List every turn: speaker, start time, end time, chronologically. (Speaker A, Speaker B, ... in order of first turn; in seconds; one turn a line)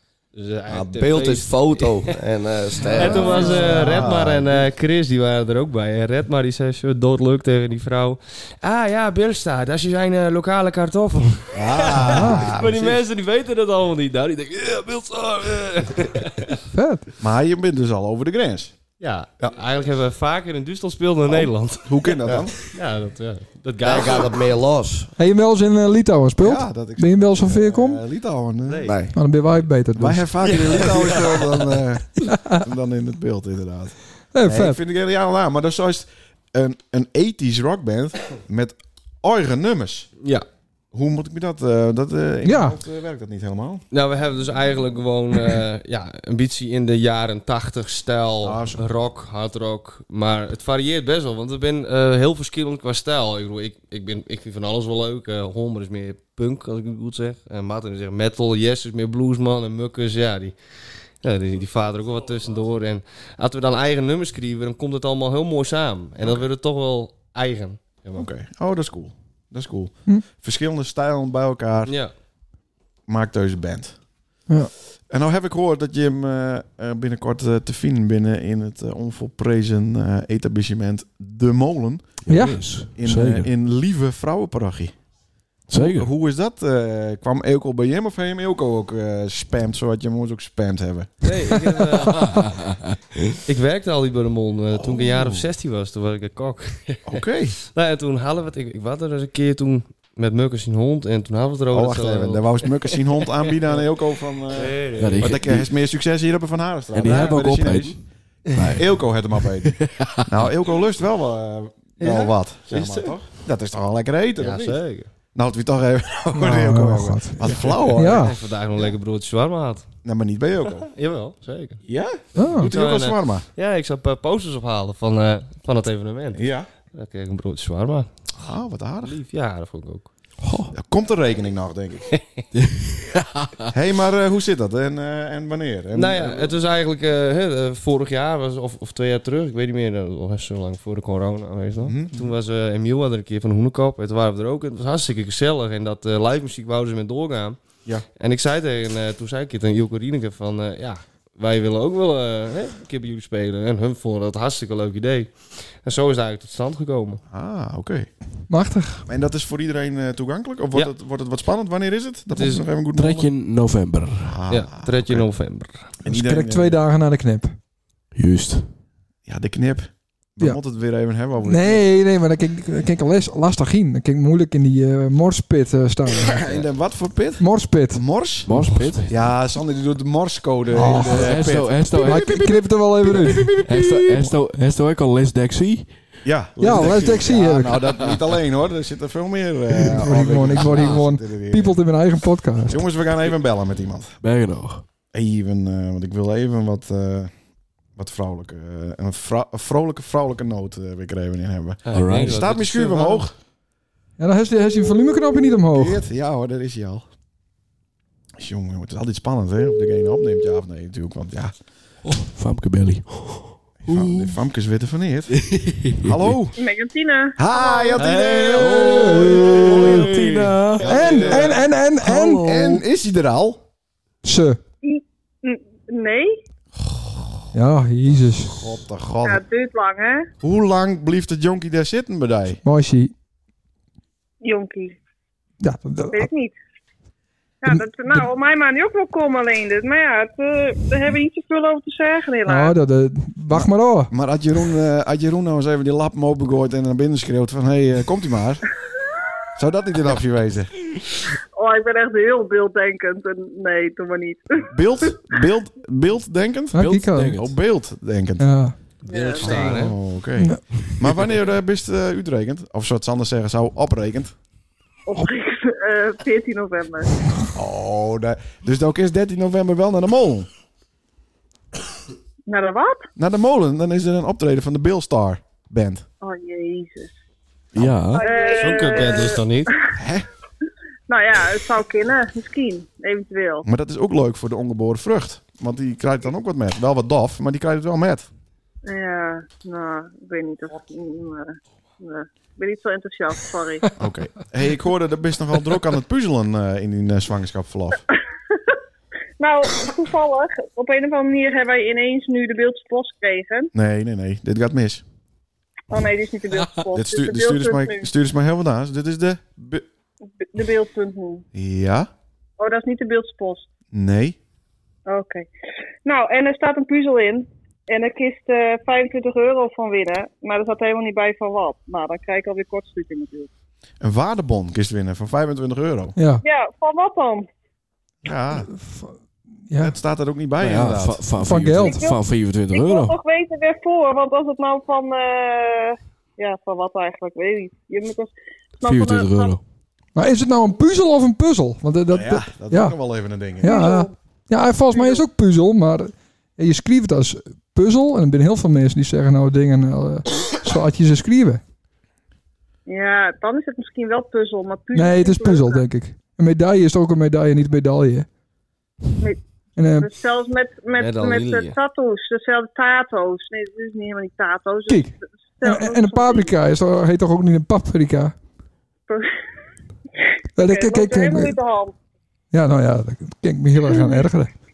Speaker A: 0.3-2.1
Speaker B: 0.7-4.2
Speaker A: 2.8-16.6
Speaker C: 3.0-4.7
Speaker D: 3.0-3.8
Speaker C: 11.5-13.0
Speaker D: 12.1-12.4
Speaker D: 16.7-17.1
Speaker C: 17.2-18.7
Speaker A: 19.0-24.4
Speaker C: 21.3-22.6
Speaker B: 23.8-25.1
Speaker D: 25.2-28.0
Speaker C: 26.4-28.9
Speaker A: 28.7-28.9
Speaker B: 28.9-29.1
Speaker D: 29.1-30.3
Speaker C: 30.0-40.1
Speaker A: 30.4-31.3
Speaker D: 32.3-32.6
Speaker D: 34.3-34.8
Speaker C: 40.9-43.8
Speaker D: 42.5-42.8
Speaker A: 43.9-60.5
Speaker C: 48.4-48.8
Speaker A: 61.2-68.3
Speaker C: 66.2-66.5
Speaker C: 68.2-72.0
Speaker A: 71.9-72.1
Speaker C: 73.1-74.0
Speaker C: 75.1-82.2
Speaker E: 82.2-83.5
Speaker D: 82.3-82.7
Speaker C: 83.0-85.0
Speaker E: 85.7-86.1
Speaker C: 85.7-91.3
Speaker A: 91.2-92.3
Speaker E: 92.1-93.0
Speaker A: 93.5-103.6
Speaker C: 94.7-95.5
Speaker C: 97.1-97.6
Speaker C: 101.7-108.0
Speaker A: 104.5-105.3
Speaker E: 105.0-105.7
Speaker E: 106.9-108.0
Speaker A: 107.0-107.3
Speaker E: 108.5-108.9
Speaker C: 108.7-114.8
Speaker E: 109.7-110.3
Speaker A: 112.0-113.2
Speaker A: 114.4-115.1
Speaker C: 115.3-118.9
Speaker D: 116.3-117.4
Speaker A: 117.5-119.9
Speaker D: 118.0-118.3
Speaker C: 120.0-120.9
Speaker A: 120.8-121.8
Speaker C: 121.9-123.5
Speaker D: 122.4-122.7
Speaker A: 122.6-128.1
Speaker C: 126.3-126.7
Speaker C: 128.4-129.2
Speaker A: 129.0-130.1
Speaker C: 130.7-132.1
Speaker A: 132.2-132.4
Speaker E: 132.6-133.7
Speaker C: 133.7-136.6
Speaker A: 135.9-147.6
Speaker C: 141.8-142.3
Speaker A: 148.2-155.3
Speaker A: 155.8-157.2
Speaker C: 157.3-158.1
Speaker D: 158.5-159.1
Speaker C: 159.1-163.3
Speaker A: 162.3-162.6
Speaker E: 162.9-164.4
Speaker C: 164.2-165.3
Speaker A: 164.5-165.9
Speaker C: 166.0-166.8
Speaker D: 166.1-167.5
Speaker E: 168.2-168.7
Speaker C: 169.3-171.8
Speaker D: 171.4-176.4
Speaker C: 176.2-184.3
Speaker D: 177.4-178.0
Speaker E: 178.4-179.2
Speaker D: 180.7-181.4
Speaker E: 180.8-182.6
Speaker D: 182.0-183.5
Speaker E: 183.6-185.9
Speaker C: 186.2-191.8
Speaker D: 186.6-188.1
Speaker D: 190.0-192.9
Speaker C: 192.7-194.2
Speaker E: 194.2-194.8
Speaker C: 195.1-197.3
Speaker C: 198.0-203.3
Speaker A: 201.9-203.3
Speaker E: 201.9-202.5
Speaker D: 204.2-206.0
Speaker C: 205.7-207.1
Speaker C: 208.4-211.5
Speaker E: 212.1-214.4
Speaker C: 213.9-216.6
Speaker E: 215.3-216.3
Speaker F: 216.6-218.1
Speaker C: 217.4-220.1
Speaker A: 218.0-220.9
Speaker E: 218.3-221.5
Speaker D: 218.8-220.1
Speaker C: 220.8-221.6
Speaker D: 220.8-222.5
Speaker E: 222.0-222.8
Speaker C: 222.4-223.6
Speaker D: 224.2-224.6
Speaker F: 224.8-226.4
Speaker C: 226.9-227.5
Speaker D: 227.5-228.7
Speaker C: 228.2-229.4
Speaker F: 229.2-230.3
Speaker C: 230.4-232.6
Speaker D: 232.6-233.1
Speaker F: 234.4-235.0
Speaker D: 235.6-236.3
Speaker F: 236.1-236.6
Speaker F: 237.6-242.8
Speaker D: 237.7-238.3
Speaker D: 242.5-244.1
Speaker C: 243.5-248.6
Speaker C: 249.6-250.7
Speaker F: 251.6-254.7
Speaker C: 254.7-258.5
Speaker D: 256.7-257.4
Speaker E: 256.8-257.6
Speaker D: 258.4-258.7
Speaker F: 259.1-259.9
Speaker A: 259.1-259.9
Speaker C: 259.4-264.3
Speaker E: 261.0-261.3
Speaker F: 265.1-267.1
Speaker C: 267.5-270.5
Speaker F: 272.5-273.0
Speaker C: 273.2-276.1
Speaker F: 276.2-277.1
Speaker C: 277.8-278.2
Speaker E: 277.8-278.3
Speaker F: 278.1-279.4
Speaker A: 278.3-279.7
Speaker C: 279.9-280.3
Speaker F: 281.1-283.7
Speaker C: 283.6-288.3
Speaker F: 288.9-293.9
Speaker C: 294.0-298.0
Speaker F: 299.4-303.7
Speaker C: 303.7-305.0
Speaker F: 305.9-308.1
Speaker E: 306.5-306.8
Speaker C: 306.9-309.9
Speaker F: 310.4-311.4
Speaker C: 311.5-312.1
Speaker F: 312.6-313.7
Speaker C: 313.9-314.4
Speaker F: 315.1-315.5
Speaker F: 316.1-323.5
Speaker C: 324.0-326.2
Speaker D: 326.2-326.4
Speaker F: 326.4-327.5
Speaker C: 328.2-328.7
Speaker D: 328.7-329.1
Speaker D: 329.7-329.9
Speaker C: 329.8-331.3
Speaker E: 330.6-333.2
Speaker D: 331.4-332.0
Speaker F: 331.8-332.2
Speaker F: 332.7-339.5
Speaker E: 338.8-339.6
Speaker D: 340.2-342.9
Speaker C: 342.1-343.8
Speaker D: 343.6-351.6
Speaker F: 343.6-344.1
Speaker F: 344.9-345.2
Speaker F: 352.9-355.9
Speaker D: 354.9-358.3
Speaker D: 359.8-360.1
Speaker F: 360.0-366.5
Speaker A: 361.0-361.8
Speaker D: 364.9-368.4
Speaker F: 370.6-371.9
Speaker D: 370.6-371.6
Speaker D: 372.5-374.5
Speaker F: 373.9-374.2